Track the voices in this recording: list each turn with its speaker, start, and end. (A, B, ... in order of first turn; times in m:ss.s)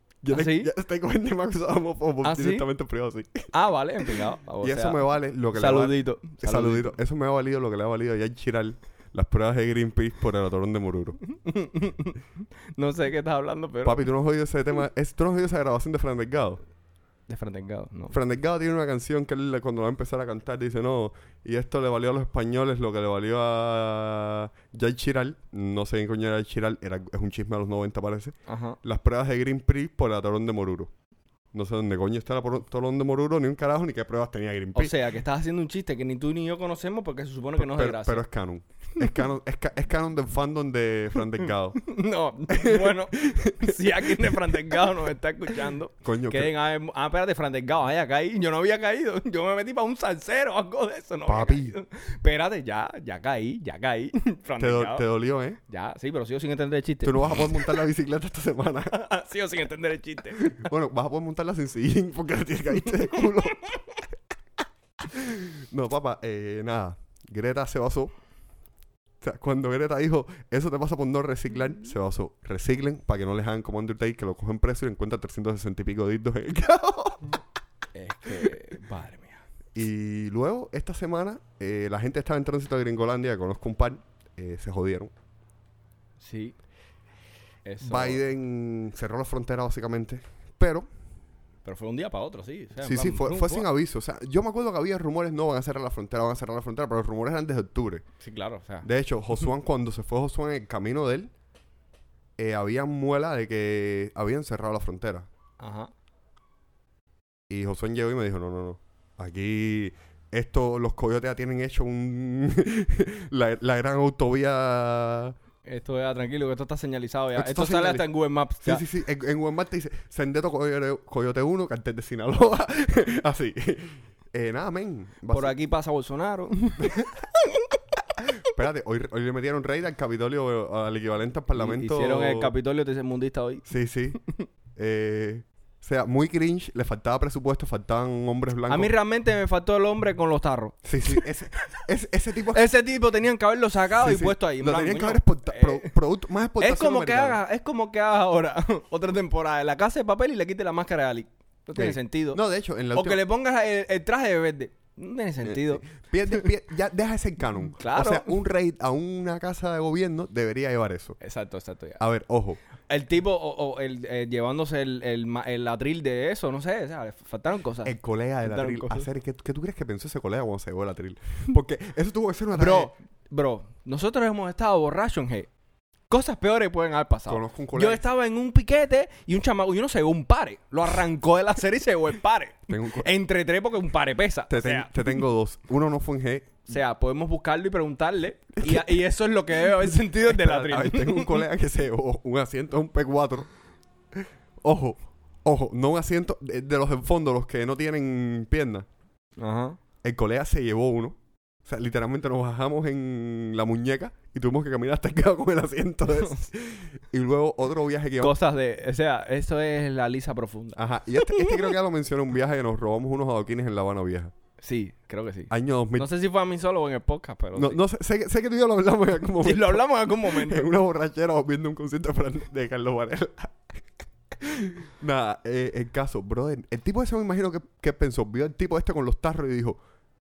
0:00.2-0:11.2 A
0:00.3-0:00.7 B
0:02.2-0:02.6 B
0:03.5-0:05.0 B
0:05.5-0:07.0 B
0:11.3-0:12.2 B
0:12.8-0:14.0 B
0:13.8-0:16.6 A
0:17.3-0:18.2 B
0:18.1-0:30.9 A
0:28.5-0:28.8 B
0:31.5-0:35.0 A
0:34.7-0:38.2 B
0:37.6-0:41.9 A
0:41.8-0:55.0 B
0:42.5-0:44.8 A
0:46.0-0:46.5 A
0:51.2-0:51.8 A
0:54.6-0:55.6 A
0:55.7-0:57.8 B
0:57.0-0:59.0 A
0:58.9-1:00.6 B
1:00.4-1:03.8 A
1:05.0-1:08.1 A
1:09.2-1:17.3 A
1:17.9-1:19.4 B
1:19.7-1:25.1 A
1:26.2-1:26.6 B
1:27.6-1:28.2 B
1:27.8-1:30.9 A
1:31.6-1:33.7 B
1:32.8-1:38.0 A
1:38.2-1:38.9 B
1:38.8-1:41.3 A
1:42.4-1:45.3 A
1:45.6-1:45.9 B
1:47.5-1:55.4 A
1:55.6-1:58.8 B
1:57.4-1:58.1 A
1:58.6-2:05.6 A
2:05.3-2:07.7 B
2:06.8-2:07.1 A
2:08.2-2:12.5 A
2:11.5-2:13.7 B
2:13.6-2:14.2 A
2:14.2-2:14.5 B
2:14.8-2:18.9 A
2:18.7-2:21.2 B
2:20.8-2:22.7 A
2:22.5-2:25.9 B
2:24.0-2:27.4 A
2:26.6-2:32.4 B
2:31.8-2:33.2 A
2:32.9-2:36.4 B
2:35.4-2:41.2 A
2:37.8-2:38.4 B
2:41.2-2:42.0 B
2:42.0-2:42.6 A
2:42.8-2:49.1 B
2:47.8-2:52.9 A
2:52.5-2:55.5 B
2:56.1-3:05.2 B
2:57.3-2:58.0 A
3:02.7-3:03.1 A
3:04.5-3:06.6 A
3:06.7-3:11.4 B
3:08.6-3:09.0 A
3:09.9-3:13.5 A
3:14.1-3:18.9 A
3:19.4-3:19.8 B
3:20.0-3:28.4 A
3:28.2-3:31.7 B
3:30.8-3:34.3 A
3:34.6-3:37.8 B
3:35.5-3:36.1 A
3:37.5-3:43.6 A
3:39.4-3:40.7 B
3:44.3-3:49.8 A